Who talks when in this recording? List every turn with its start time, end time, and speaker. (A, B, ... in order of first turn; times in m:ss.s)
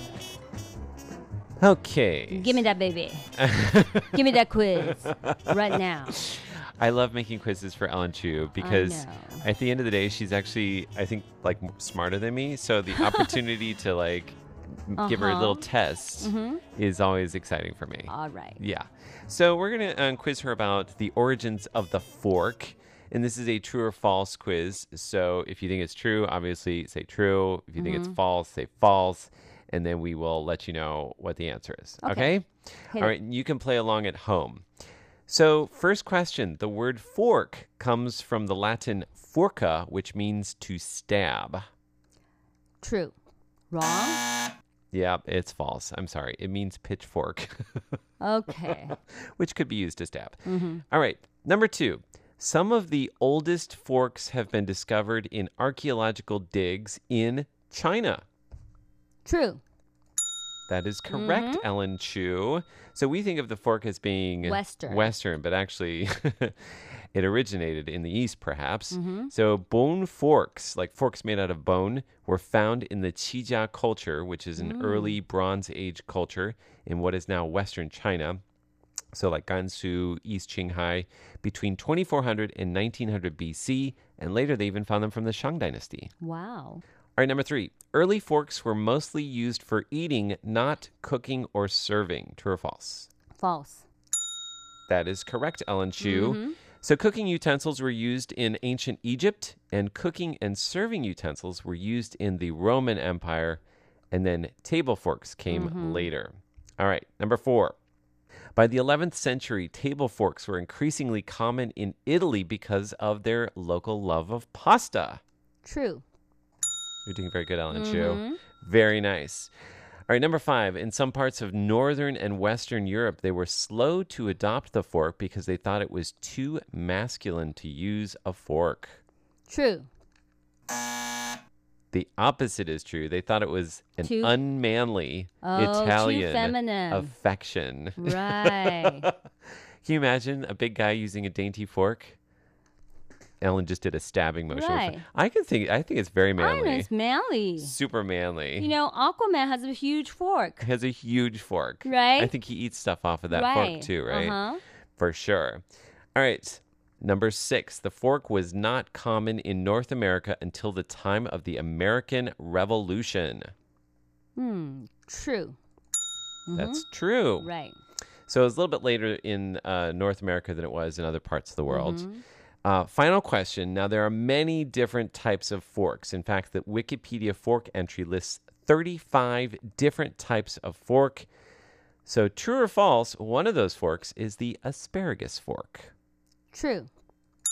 0:01.6-0:02.6 A
0:02.3-0:03.3 B
0:03.4-0:04.1 A
0:04.1-0:06.2 B
0:05.0-0:05.4 A
0:06.1-0:34.6 A
0:08.6-0:09.4 B
0:13.0-0:13.3 B
0:15.0-0:15.6 B
0:16.2-0:16.6 B
0:18.1-0:18.6 B
0:27.8-0:28.2 B
0:32.0-0:32.3 B
0:35.3-0:41.7 A
0:42.8-0:43.1 B
0:43.7-0:44.2 B
0:44.9-0:47.8 A
0:48.2-0:48.9 B
0:48.9-0:58.2 A
0:50.4-0:50.8 B
0:59.2-0:59.6 B
1:00.7-1:18.4 A
1:01.1-1:01.6 B
1:04.4-1:05.1 B
1:08.9-1:09.3 B
1:14.6-1:15.2 B
1:19.1-1:26.1 A
1:26.2-1:26.8 B
1:27.2-1:33.1 A
1:33.4-1:33.8 B
1:34.9-1:47.8 A
1:36.0-1:36.6 B
1:45.5-1:46.1 B
1:48.6-1:55.2 A
1:55.6-1:56.0 B
1:57.0-1:59.5 A
1:57.7-1:58.4 B
2:00.1-2:09.0 A
2:09.5-2:09.9 B
2:11.9-2:19.1 A
2:14.0-2:14.3 B
2:15.4-2:17.1 B
2:18.0-2:19.1 B
2:19.8-2:22.2 A
2:23.4-2:26.9 A
2:24.5-2:25.0 B
2:26.4-2:27.7 B
2:27.6-2:28.7 A
2:28.6-2:30.6 B
2:30.6-2:34.4 A
2:31.8-2:32.3 B
2:33.3-2:34.6 B
2:35.0-2:35.6 A
2:36.1-2:43.5 A
2:44.4-2:45.6 B
2:46.5-2:46.8 B
2:46.6-2:47.5 A
2:47.4-2:47.8 B
2:48.3-2:52.1 A
2:51.7-2:52.2 B
2:52.6-3:01.3 A
3:02.0-3:05.9 A
3:06.5-3:06.9 B